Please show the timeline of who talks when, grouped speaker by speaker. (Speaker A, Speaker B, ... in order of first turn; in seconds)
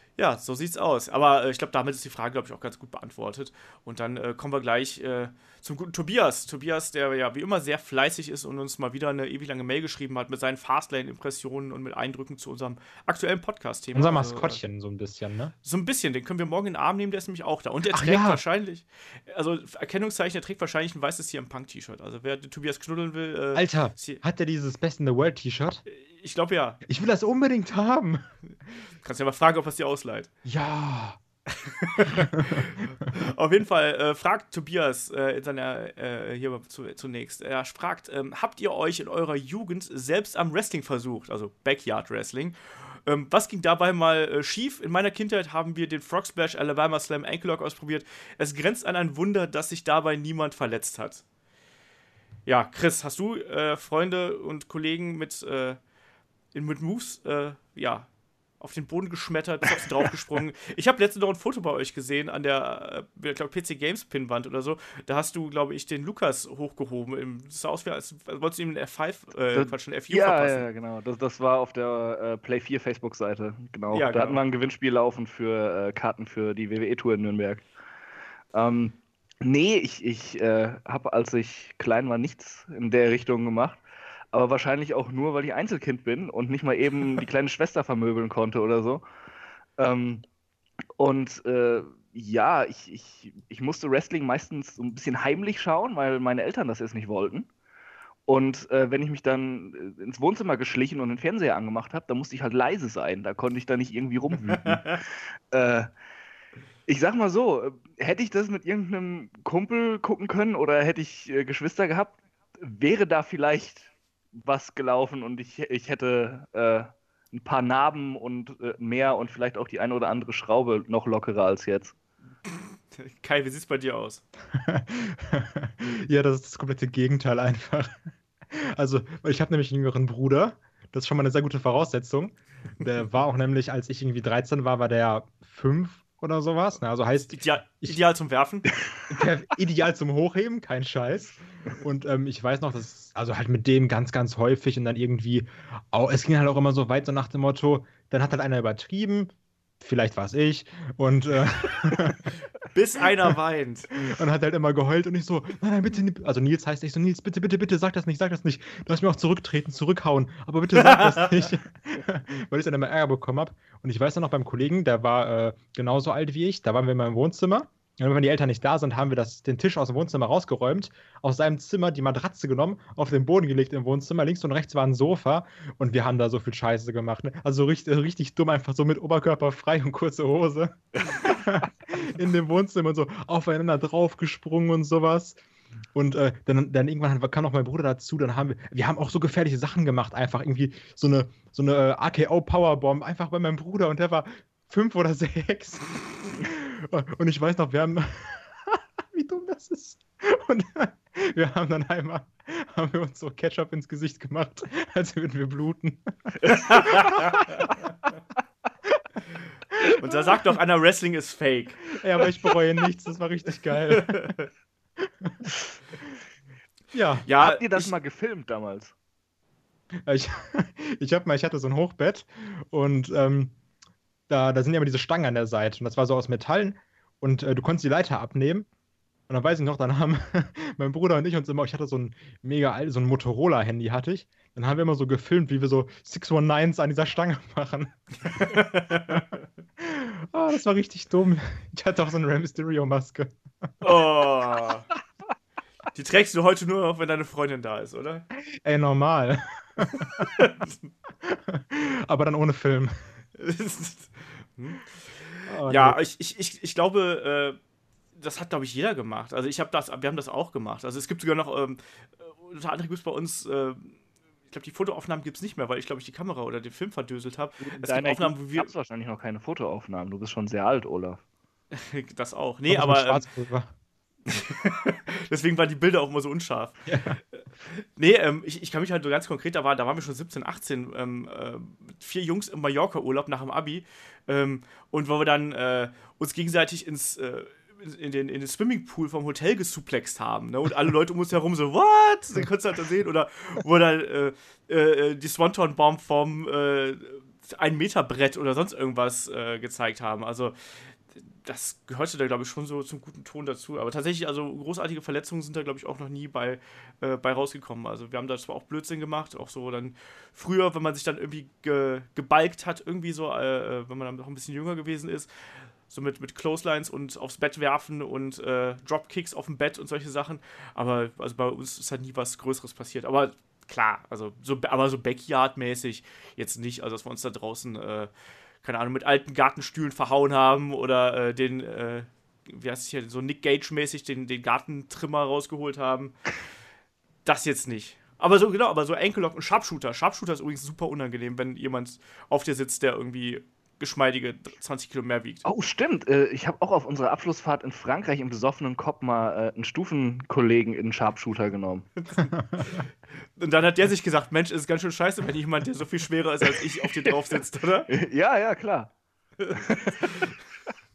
Speaker A: 0.2-14.6, 15.6-24.2, 25.9-26.8, 29.0-30.3, 31.5-51.2, 52.5-55.8, 56.5-58.1, 58.6-70.6, 73.9-74.4, 122.9-124.2, 137.2-138.7, 152.7-153.9, 160.8-161.4, 206.5-207.4, 209.9-211.8, 213.9-214.4, 217.3-217.9, 238.3-239.2, 243.8-244.9, 245.9-248.3, 250.0-250.7, 253.4-257.6, 258.2-264.0, 264.5-268.7, 271.7-273.2, 274.3-276.8, 277.3-315.3, 315.9-328.1, 328.6-336.2, 337.2-345.4, 352.1-357.9, 359.4-360.3
Speaker B: 13.9-15.5, 17.9-18.4, 23.6-25.8, 26.9-28.2, 30.4-31.2, 32.1-32.7, 124.5-138.0, 139.1-152.2, 153.9-185.4, 185.9-207.7, 212.0-214.4, 215.0-215.5, 216.9-217.3, 220.1-223.6, 224.3-228.7, 229.3-239.2, 239.8-243.4, 248.6-250.3, 251.2-252.9, 255.5-256.0, 272.7-273.7, 276.9-277.2
Speaker C: 69.5-77.7, 78.5-83.8, 84.3-89.0, 89.8-90.2, 91.0-97.5, 98.3-105.9, 106.9-121.9, 217.4-218.9, 267.6-271.2, 345.4-351.9, 357.9-358.9, 359.5-360.3